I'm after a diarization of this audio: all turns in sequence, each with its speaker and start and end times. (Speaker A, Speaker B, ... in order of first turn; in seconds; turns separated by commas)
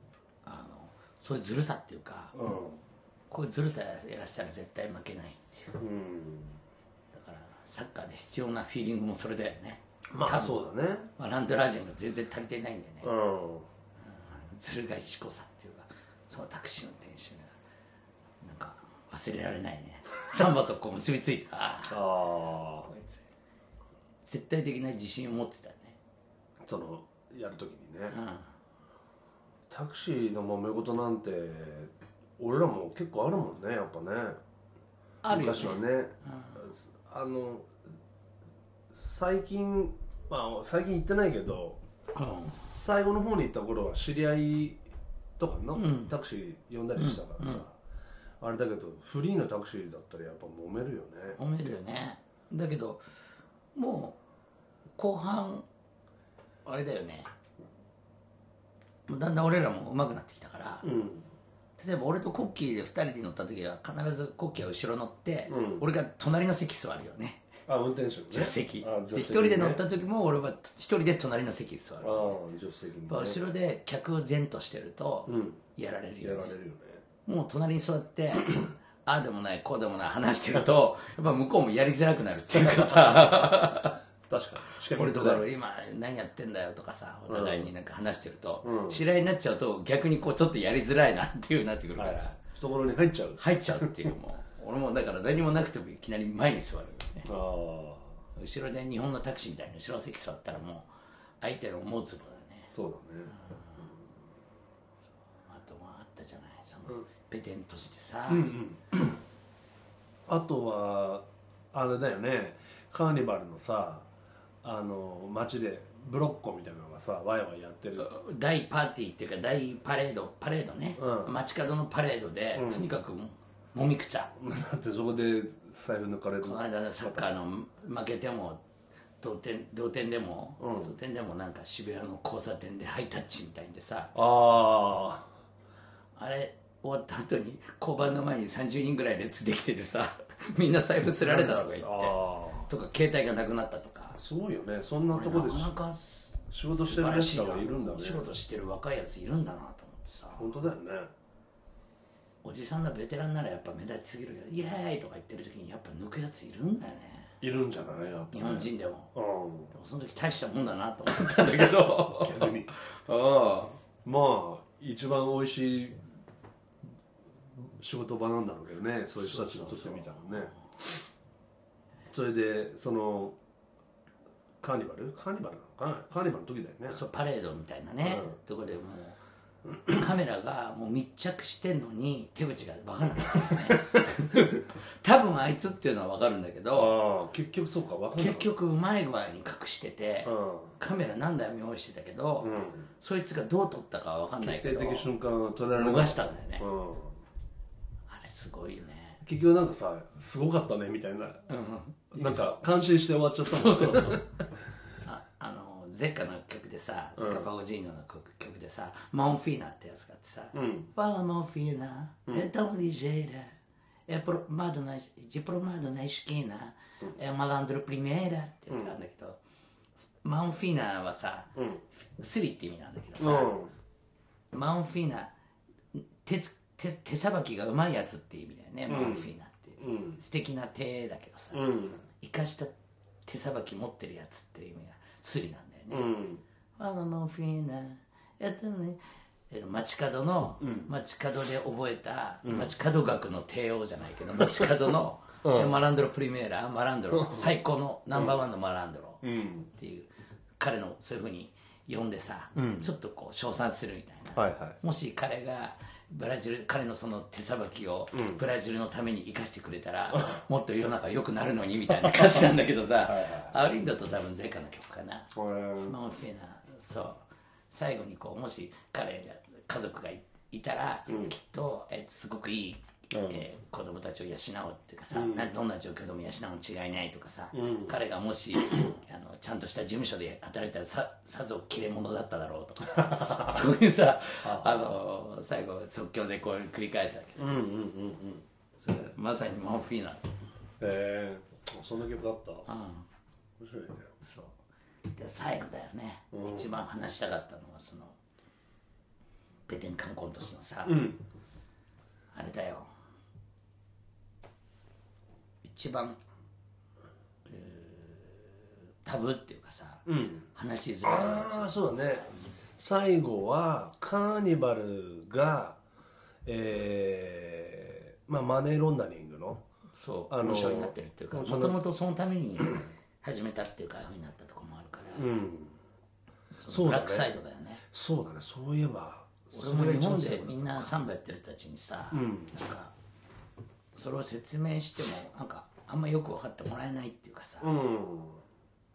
Speaker A: 0.4-2.3, Speaker B: 2.3-2.8, Speaker A: 3.3-5.8, Speaker B: 5.8-6.6, Speaker A: 7.1-10.6, Speaker B: 10.1-11.1, Speaker A: 11.2-13.1, Speaker B: 13.0-13.7, Speaker A: 14.0-17.6, Speaker A: 18.4-22.0, Speaker B: 21.9-22.9, Speaker A: 22.8-23.2, Speaker A: 24.2-26.0, Speaker B: 26.6-28.2, Speaker A: 28.1-28.5, Speaker B: 29.7-34.4, Speaker A: 35.2-36.7, Speaker B: 35.2-37.7, Speaker B: 38.9-41.8, Speaker A: 42.1-42.6, Speaker B: 42.3-44.8, Speaker B: 45.4-47.8, Speaker A: 45.8-46.1, Speaker A: 47.0-47.6, Speaker B: 48.4-51.4, Speaker A: 51.3-53.0, Speaker A: 53.7-54.2, Speaker A: 55.0-55.6, Speaker A: 56.6-57.3, Speaker A: 59.1-60.9, Speaker B: 60.8-61.3, Speaker A: 61.8-67.4, Speaker B: 65.5-65.8, Speaker B: 67.7-69.8, Speaker A: 68.3-72.4, Speaker B: 72.0-73.4, Speaker A: 73.1-76.5, Speaker B: 75.3-75.6, Speaker B: 76.2-77.0, Speaker A: 77.2-84.0, Speaker B: 82.5-83.5, Speaker B: 84.3-85.4, Speaker A: 84.7-92.4, Speaker B: 87.3-87.7, Speaker B: 88.6-89.0, Speaker B: 92.0-94.1, Speaker A: 93.4-97.3, Speaker B: 97.2-98.1, Speaker A: 98.3-100.9, Speaker A: 101.4-102.7, Speaker B: 102.7-103.9, Speaker A: 103.3-103.8, Speaker A: 105.4-108.5, Speaker B: 108.3-109.2, Speaker B: 110.3-114.1, Speaker B: 114.6-118.1, Speaker A: 118.0-124.3, Speaker B: 121.0-121.3, Speaker B: 122.5-122.9, Speaker B: 124.3-127.3, Speaker A: 126.4-128.6, Speaker A: 129.2-134.1, Speaker B: 130.6-130.9, Speaker B: 134.1-135.3, Speaker A: 136.2-144.2, Speaker B: 141.1-142.7, Speaker B: 144.1-145.7, Speaker A: 145.1-150.5, Speaker B: 146.5-148.3, Speaker B: 150.3-151.1, Speaker A: 152.4-157.3, Speaker B: 157.4-159.7, Speaker A: 158.3-159.1, Speaker A: 159.7-163.8, Speaker B: 162.0-162.7, Speaker B: 164.0-166.0, Speaker B: 167.5-170.5, Speaker A: 169.2-170.4, Speaker B: 172.1-173.4, Speaker B: 174.6-177.0, Speaker A: 176.9-179.2, Speaker B: 178.0-178.3, Speaker A: 179.8-187.0, Speaker B: 183.5-183.8, Speaker B: 186.7-188.5, Speaker A: 188.1-195.1, Speaker B: 190.2-190.8, Speaker B: 192.4-192.9, Speaker B: 194.4-197.2, Speaker A: 195.7-196.7, Speaker A: 198.1-199.2, Speaker B: 199.2-201.4, Speaker A: 201.5-202.6, Speaker B: 202.1-204.3, Speaker A: 203.4-204.3, Speaker A: 205.0-213.5, Speaker B: 207.2-207.5, Speaker B: 210.5-210.9, Speaker A: 214.1-219.4, Speaker A: 220.2-223.6, Speaker B: 221.6-221.8, Speaker B: 223.2-223.7, Speaker A: 224.5-225.3, Speaker A: 225.9-232.7, Speaker B: 228.9-230.2, Speaker B: 231.5-232.0, Speaker A: 233.2-236.1, Speaker B: 235.9-236.4, Speaker A: 236.8-287.7, Speaker B: 240.6-240.9, Speaker B: 242.4-242.7, Speaker B: 244.4-244.7, Speaker B: 245.4-245.8, Speaker B: 247.1-247.5, Speaker B: 248.1-248.4, Speaker B: 249.2-249.7, Speaker B: 252.5-252.9, Speaker B: 254.3-254.8, Speaker B: 258.1-258.4, Speaker B: 262.0-262.5, Speaker B: 263.0-263.5, Speaker B: 265.3-265.9, Speaker B: 273.1-273.4, Speaker B: 275.1-275.5, Speaker B: 277.5-278.0, Speaker B: 283.1-283.6, Speaker B: 284.4-284.9, Speaker B: 287.4-288.4, Speaker A: 288.8-290.3, Speaker B: 290.8-292.7, Speaker A: 292.7-293.0, Speaker B: 293.6-294.1, Speaker A: 294.2-294.5, Speaker A: 295.1-298.2, Speaker B: 296.3-296.8, Speaker A: 299.7-301.1, Speaker B: 300.9-301.2, Speaker A: 302.3-302.9, Speaker A: 305.6-306.2, Speaker A: 307.4-311.8, Speaker B: 310.1-310.5, Speaker B: 311.0-315.8, Speaker B: 316.4-319.7, Speaker A: 319.9-325.3, Speaker B: 320.3-321.8, Speaker B: 325.1-325.8, Speaker A: 326.6-327.8, Speaker B: 326.7-327.3, Speaker B: 327.9-330.9, Speaker A: 329.5-332.9, Speaker B: 332.1-332.6, Speaker A: 333.9-337.7, Speaker B: 337.6-338.4